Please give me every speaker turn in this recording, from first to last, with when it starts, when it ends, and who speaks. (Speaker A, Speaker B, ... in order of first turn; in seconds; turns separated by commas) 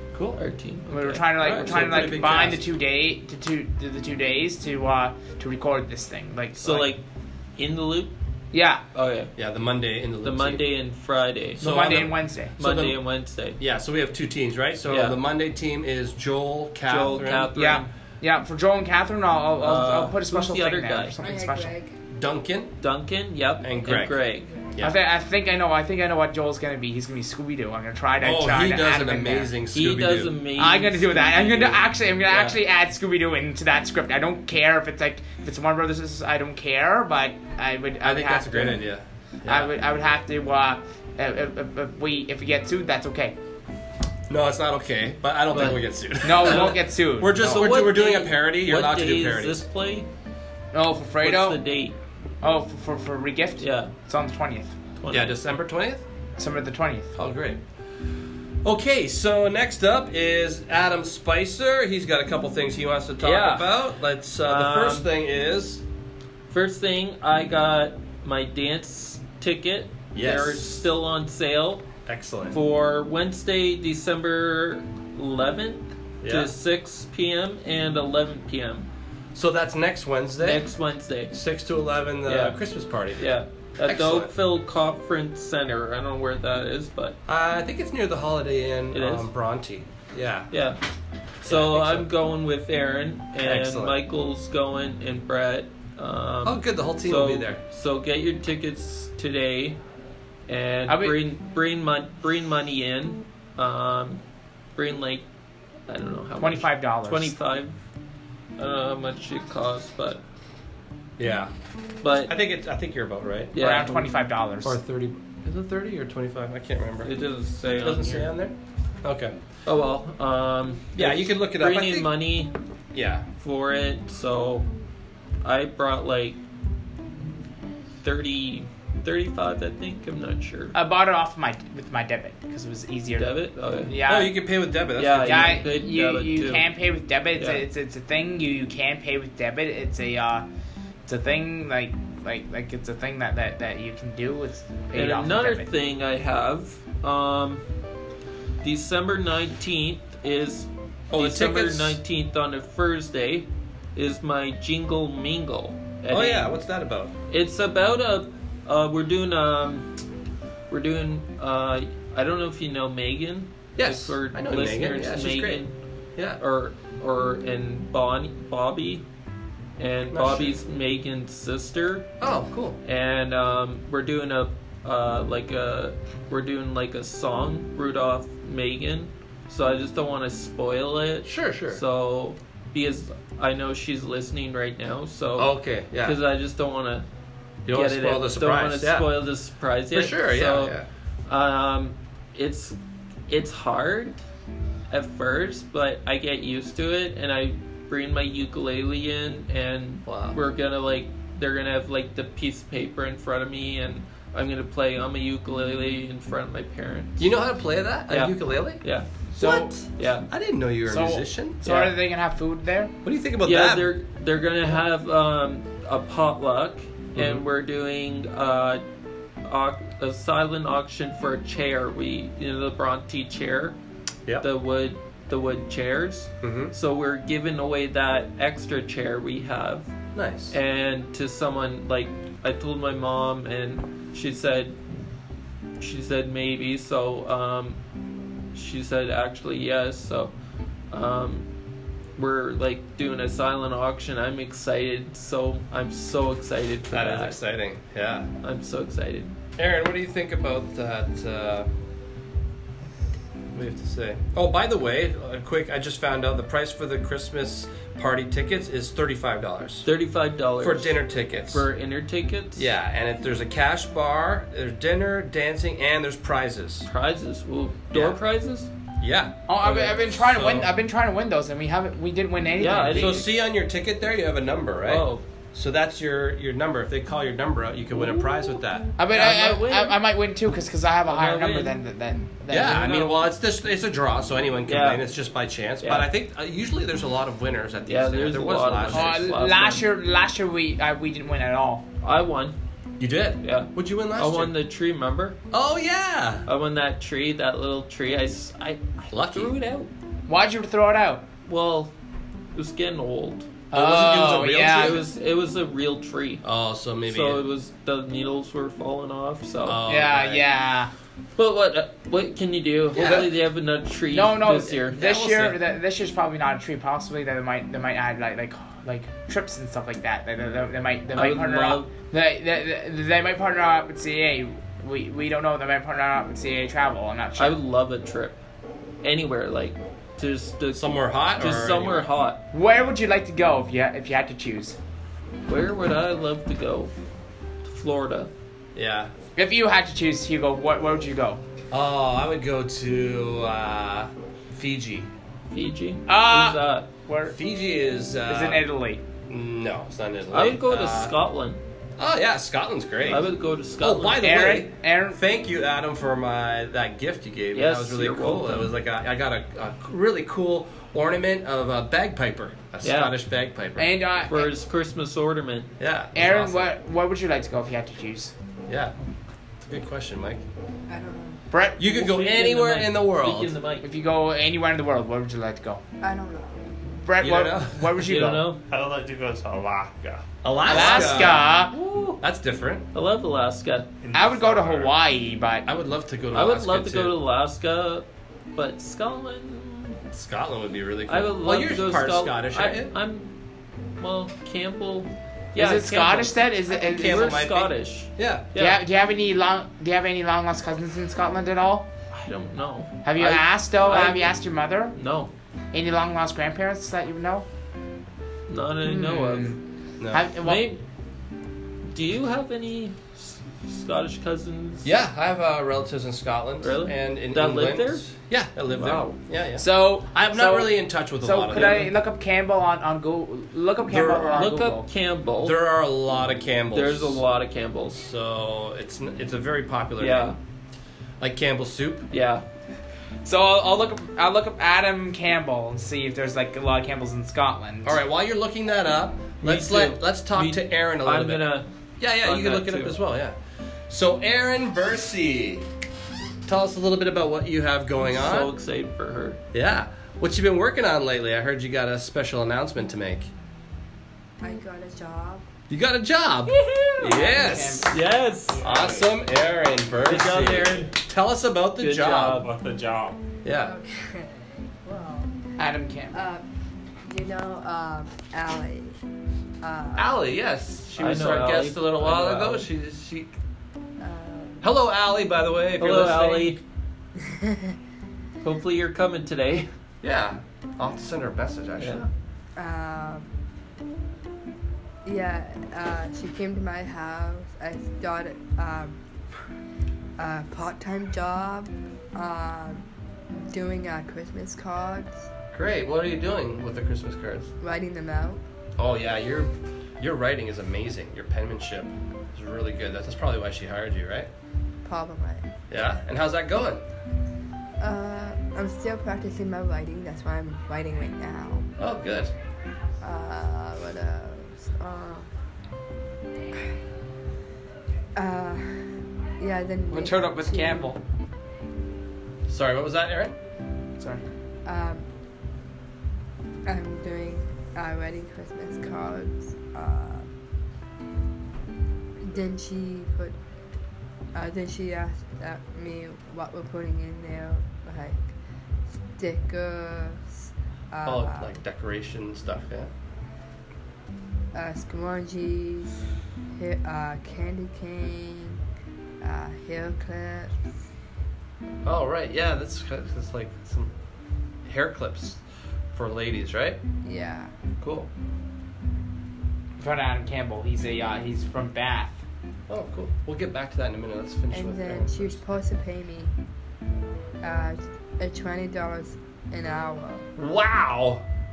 Speaker A: 0.1-0.4, Speaker B: 0.4-2.5, Speaker C: 0.9-6.9, Speaker A: 1.5-2.6, Speaker B: 6.6-7.0, Speaker B: 7.6-8.1, Speaker C: 8.5-8.8, Speaker B: 8.9-9.3, Speaker A: 9.4-10.6, Speaker B: 10.2-12.1, Speaker A: 11.6-13.0, Speaker C: 11.6-12.6, Speaker B: 12.6-13.6, Speaker A: 13.6-17.5, Speaker B: 14.9-15.2, Speaker B: 16.9-17.9, Speaker C: 17.6-21.8, Speaker B: 19.6-21.1, Speaker D: 21.2-22.0, Speaker A: 22.1-22.7, Speaker B: 22.8-24.5, Speaker A: 23.6-24.2, Speaker D: 24.4-24.7, Speaker A: 24.7-25.0, Speaker C: 24.8-29.5, Speaker A: 28.2-30.3, Speaker B: 29.7-32.6, Speaker C: 30.6-38.8, Speaker A: 38.0-39.7, Speaker C: 39.4-43.4, Speaker A: 44.3-49.6, Speaker B: 45.5-46.8, Speaker C: 46.2-47.6, Speaker B: 47.4-50.1, Speaker C: 50.7-51.6, Speaker B: 51.2-51.9, Speaker C: 52.4-54.7, Speaker B: 53.6-53.9, Speaker B: 55.0-55.4, Speaker A: 55.1-56.0, Speaker C: 56.4-57.1, Speaker A: 57.1-57.6, Speaker A: 58.6-65.8, Speaker B: 63.2-63.8, Speaker B: 64.4-65.1, Speaker B: 66.5-71.9, Speaker A: 70.1-70.8, Speaker A: 72.1-72.6, Speaker B: 72.5-78.9, Speaker A: 76.2-76.5, Speaker A: 79.3-80.7, Speaker B: 80.4-81.3, Speaker A: 81.3-84.3, Speaker B: 82.2-82.6, Speaker B: 83.2-87.2, Speaker A: 87.3-90.5, Speaker B: 88.9-89.3, Speaker B: 90.5-90.8, Speaker B: 91.4-99.8, Speaker A: 91.4-92.1, Speaker A: 93.4-94.0, Speaker A: 96.4-97.6, Speaker B: 100.5-104.2, Speaker C: 100.9-101.2, Speaker B: 104.8-105.2, Speaker B: 105.9-107.8, Speaker C: 106.4-107.3, Speaker B: 108.6-110.2, Speaker A: 111.2-111.5, Speaker B: 112.0-112.3, Speaker A: 112.2-113.6, Speaker B: 113.5-114.1, Speaker C: 113.6-114.8, Speaker A: 114.6-117.1, Speaker B: 117.0-118.3, Speaker A: 117.7-119.4, Speaker B: 119.7-122.5, Speaker A: 121.0-122.1, Speaker A: 122.9-123.2, Speaker B: 123.4-124.7, Speaker B: 125.4-126.4, Speaker B: 128.0-130.8, Speaker C: 130.7-133.3, Speaker B: 133.2-133.9, Speaker C: 133.9-134.3, Speaker A: 133.9-135.6, Speaker B: 134.9-136.7, Speaker C: 135.2-140.4, Speaker B: 137.4-137.6, Speaker C: 141.1-145.7, Speaker B: 144.9-147.6, Speaker B: 148.6-156.5, Speaker A: 151.1-152.0, Speaker A: 156.1-157.1, Speaker B: 157.3-159.9, Speaker B: 160.7-165.7, Speaker A: 163.8-165.6, Speaker B: 166.4-169.0, Speaker B: 169.8-172.1, Speaker A: 170.1-170.6, Speaker A: 172.2-172.8, Speaker B: 172.8-187.1, Speaker A: 181.2-181.8, Speaker A: 185.4-186.2, Speaker A: 187.7-189.1, Speaker B: 187.7-190.7, Speaker A: 189.9-190.8, Speaker B: 191.3-192.8, Speaker B: 193.3-194.2, Speaker B: 194.9-207.3, Speaker A: 200.1-200.4, Speaker A: 207.2-208.8, Speaker B: 208.1-209.1, Speaker C: 209.3-209.8, Speaker A: 209.4-211.7, Speaker B: 210.0-210.3, Speaker C: 210.9-212.9, Speaker B: 211.7-211.9, Speaker A: 213.0-213.9, Speaker B: 213.4-218.8, Speaker A: 217.2-217.4, Speaker B: 219.4-223.8, Speaker B: 224.4-229.9, Speaker A: 226.4-226.7, Speaker A: 230.2-230.6, Speaker B: 230.5-234.8, Speaker B: 235.8-237.8, Speaker B: 238.5-240.3, Speaker B: 240.9-241.4, Speaker B: 242.2-247.4, Speaker A: 246.9-248.3, Speaker B: 248.4-249.3, Speaker A: 249.6-251.7, Speaker A: 253.5-259.9, Speaker B: 259.8-262.7, Speaker A: 260.6-261.7, Speaker A: 262.6-266.9, Speaker B: 266.9-268.7, Speaker A: 267.9-268.2, Speaker A: 269.0-270.7, Speaker C: 269.5-273.2, Speaker B: 272.6-273.2, Speaker A: 272.9-278.9, Speaker B: 274.9-275.2, Speaker C: 279.0-283.2, Speaker B: 279.1-280.0, Speaker B: 281.1-281.7, Speaker A: 282.5-289.2, Speaker B: 284.7-285.0, Speaker B: 285.8-286.1, Speaker B: 287.9-289.8, Speaker C: 288.9-291.8, Speaker B: 292.0-292.6, Speaker A: 293.0-294.5, Speaker B: 293.4-295.4, Speaker A: 295.5-296.5, Speaker B: 296.5-299.9, Speaker A: 299.1-299.5, Speaker C: 300.3-301.2, Speaker B: 301.4-301.9, Speaker B: 302.6-303.5, Speaker C: 303.7-305.0, Speaker A: 303.7-305.1, Speaker B: 304.5-306.4, Speaker A: 306.4-307.4, Speaker B: 307.1-309.8, Speaker A: 309.6-310.4, Speaker C: 309.9-310.9, Speaker B: 311.4-315.5, Speaker A: 312.9-313.3, Speaker C: 313.0-313.3, Speaker C: 314.1-327.6, Speaker A: 315.0-315.5, Speaker B: 321.1-321.9, Speaker B: 327.4-328.4, Speaker B: 329.0-332.4, Speaker A: 330.7-332.1, Speaker C: 332.5-334.8, Speaker B: 335.5-336.9, Speaker B: 337.6-338.3, Speaker A: 338.7-339.1, Speaker C: 339.4-341.4, Speaker A: 341.7-345.1, Speaker B: 345.5-346.9, Speaker C: 346.1-347.4, Speaker A: 347.3-348.6, Speaker C: 348.3-349.0, Speaker A: 349.3-351.1, Speaker B: 350.3-351.6, Speaker A: 352.0-363.9, Speaker B: 353.1-354.2, Speaker C: 354.2-355.2, Speaker B: 357.5-358.7, Speaker B: 362.8-363.1, Speaker C: 363.8-364.5, Speaker B: 364.3-365.7, Speaker A: 365.8-366.7, Speaker C: 366.1-368.3, Speaker A: 368.7-368.9, Speaker A: 369.6-370.4, Speaker D: 370.9-371.4, Speaker C: 371.5-372.0, Speaker A: 371.8-373.5, Speaker B: 371.8-373.9, Speaker C: 373.8-375.8, Speaker D: 376.0-376.7, Speaker C: 377.0-378.5, Speaker A: 377.2-378.2, Speaker B: 378.0-378.6, Speaker E: 378.7-380.2, Speaker A: 380.4-381.5, Speaker C: 380.7-381.8, Speaker B: 380.7-382.2, Speaker A: 382.2-382.9, Speaker B: 382.9-383.9, Speaker E: 384.0-384.9, Speaker C: 384.1-385.7, Speaker A: 385.7-387.1, Speaker B: 386.3-390.0, Speaker A: 390.1-392.9, Speaker B: 391.1-393.3, Speaker B: 394.0-398.8, Speaker C: 395.6-397.4, Speaker A: 396.7-398.5, Speaker C: 398.6-401.9, Speaker B: 402.1-404.3, Speaker C: 403.0-404.9, Speaker B: 404.9-405.3, Speaker C: 405.7-407.4, Speaker B: 408.5-409.5, Speaker C: 408.8-409.6, Speaker A: 410.0-410.3, Speaker C: 410.1-410.7, Speaker B: 410.4-410.8, Speaker B: 411.9-414.9, Speaker A: 414.8-421.9, Speaker B: 416.6-418.1, Speaker B: 418.7-419.1, Speaker C: 419.6-424.9, Speaker B: 421.6-421.9, Speaker A: 423.9-424.5, Speaker B: 424.3-425.6, Speaker A: 425.4-427.2, Speaker B: 426.7-428.0, Speaker A: 427.9-430.4, Speaker B: 430.0-430.4, Speaker A: 431.2-432.1, Speaker B: 432.1-432.4, Speaker C: 433.2-438.0, Speaker A: 437.8-441.4, Speaker B: 439.4-441.7, Speaker A: 442.0-443.4, Speaker B: 442.2-443.0, Speaker A: 443.9-445.6, Speaker A: 446.5-448.5, Speaker B: 448.0-449.4, Speaker A: 449.5-453.3, Speaker D: 454.4-455.4, Speaker A: 455.7-458.0, Speaker C: 456.7-458.0, Speaker B: 457.9-458.7, Speaker E: 458.5-459.2, Speaker A: 458.6-462.5, Speaker B: 460.1-460.9, Speaker E: 460.1-460.9, Speaker B: 461.8-462.5, Speaker E: 462.3-463.2, Speaker A: 463.4-463.7, Speaker D: 463.6-464.3, Speaker D: 464.8-465.3, Speaker C: 465.6-466.2, Speaker D: 466.1-466.4, Speaker D: 467.0-468.9, Speaker D: 469.6-470.1, Speaker A: 469.9-473.3, Speaker B: 471.0-472.7, Speaker D: 474.0-474.6, Speaker A: 474.6-476.6, Speaker B: 475.8-476.6, Speaker D: 477.2-477.7, Speaker B: 478.4-479.7, Speaker A: 480.0-482.1, Speaker B: 481.8-482.1, Speaker D: 482.6-483.3, Speaker D: 485.1-489.0, Speaker D: 490.2-495.3, Speaker A: 495.5-497.5, Speaker D: 497.6-498.4, Speaker A: 498.8-504.3, Speaker D: 504.8-505.5, Speaker A: 505.7-506.8, Speaker D: 507.8-511.7, Speaker A: 511.8-512.3, Speaker D: 513.0-515.3, Speaker D: 518.1-520.9, Speaker C: 519.9-521.0, Speaker A: 522.5-523.4, Speaker C: 524.0-524.2, Speaker D: 524.6-525.1, Speaker D: 526.6-530.3, Speaker D: 532.2-533.4, Speaker D: 534.3-538.3, Speaker D: 539.1-541.6, Speaker A: 541.0-542.9, Speaker D: 544.5-546.0, Speaker D: 546.5-548.6, Speaker D: 549.2-550.6, Speaker A: 551.8-553.9, Speaker A: 554.6-555.4, Speaker A: 555.9-556.8, Speaker D: 557.0-557.5, Speaker A: 557.8-558.1, Speaker C: 559.8-562.2, Speaker A: 562.7-565.4, Speaker D: 564.5-566.3, Speaker D: 567.4-570.2, Speaker A: 570.4-571.2